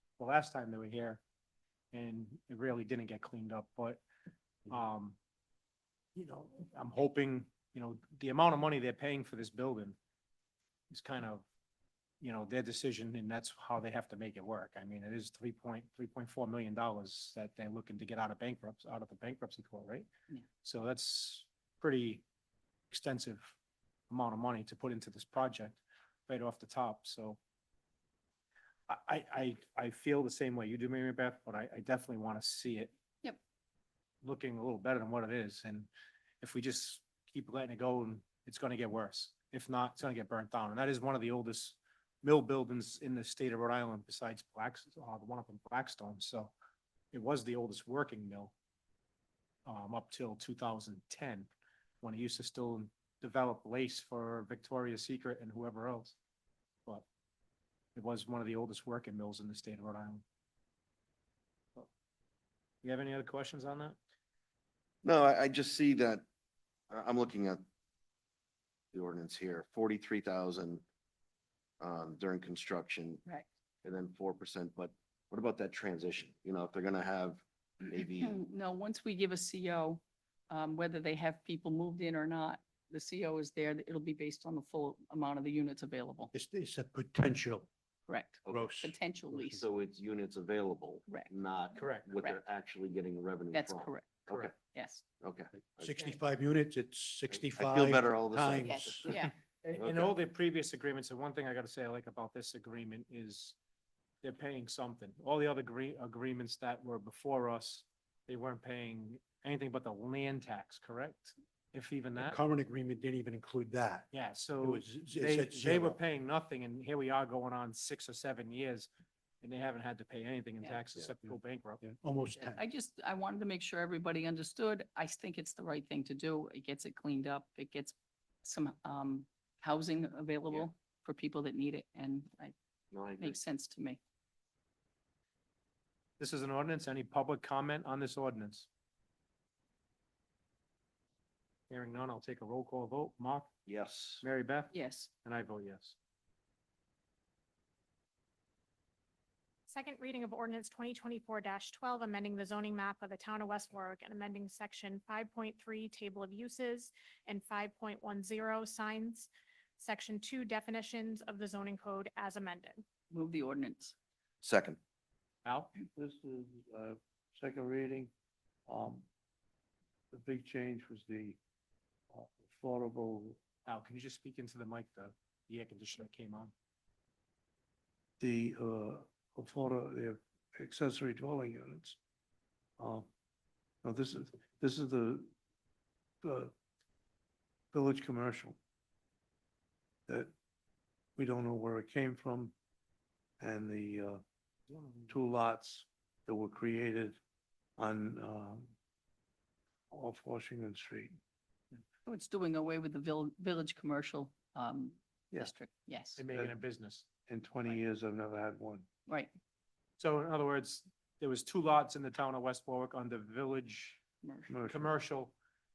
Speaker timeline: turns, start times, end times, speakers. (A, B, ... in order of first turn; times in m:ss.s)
0:00.2-0:01.2 A
0:01.9-0:04.0 A
0:04.7-0:05.2 A
0:06.2-0:10.0 A
0:10.9-0:11.4 A
0:12.2-0:20.1 A
0:20.6-0:22.2 A
0:22.9-0:23.6 A
0:24.1-0:27.4 A
0:28.9-0:32.9 A
0:34.2-0:35.9 A
0:36.4-0:46.5 A
0:47.1-0:48.5 A
0:49.7-0:51.5 A
0:52.0-0:56.2 A
0:58.0-1:00.2 A
1:02.8-1:04.0 A
1:05.0-1:06.2 B
1:06.9-1:07.6 B
1:08.9-1:10.8 B
1:11.8-1:13.2 B
1:13.8-1:18.4 B
1:18.1-1:26.3 C
1:26.3-1:27.7 D
1:28.1-1:29.6 C
1:28.5-1:29.6 D
1:29.6-1:34.5 B
1:31.8-1:32.1 A
1:32.1-1:32.4 C
1:33.5-1:35.0 C
1:35.2-1:35.9 B
1:35.8-1:39.1 D
1:37.3-1:39.0 B
1:38.6-1:39.3 C
1:39.6-1:43.6 A
1:39.7-1:40.1 B
1:44.2-1:52.4 A
1:52.2-1:54.1 D
1:54.1-1:58.9 A
1:54.6-1:56.0 D
1:59.4-2:01.8 A
2:01.8-2:02.6 D
2:02.5-2:12.5 C
2:12.9-2:13.4 B
2:13.2-2:14.0 C
2:16.2-2:18.7 A
2:21.7-2:23.5 A
2:23.7-2:24.2 B
2:24.2-2:26.0 A
2:24.7-2:25.1 C
2:29.7-2:42.8 E
2:43.1-2:44.0 C
2:44.4-2:44.8 B
2:45.4-2:45.7 A
2:45.9-2:48.1 F
2:48.7-2:49.1 F
2:50.1-2:51.4 F
2:52.1-2:53.4 F
2:53.6-2:56.5 A
2:58.2-3:02.0 F
3:02.8-3:03.1 F
3:03.8-3:05.3 F
3:06.2-3:06.5 F
3:07.7-3:08.6 F
3:10.1-3:10.3 F
3:11.2-3:12.5 F
3:13.4-3:14.2 F
3:15.1-3:17.2 F
3:17.8-3:18.7 F
3:19.9-3:21.2 F
3:22.1-3:26.2 C
3:26.2-3:27.1 A
3:27.3-3:28.9 F
3:29.1-3:29.3 C
3:30.0-3:34.0 A
3:34.2-3:34.5 C
3:34.5-3:34.9 F
3:34.7-3:35.3 A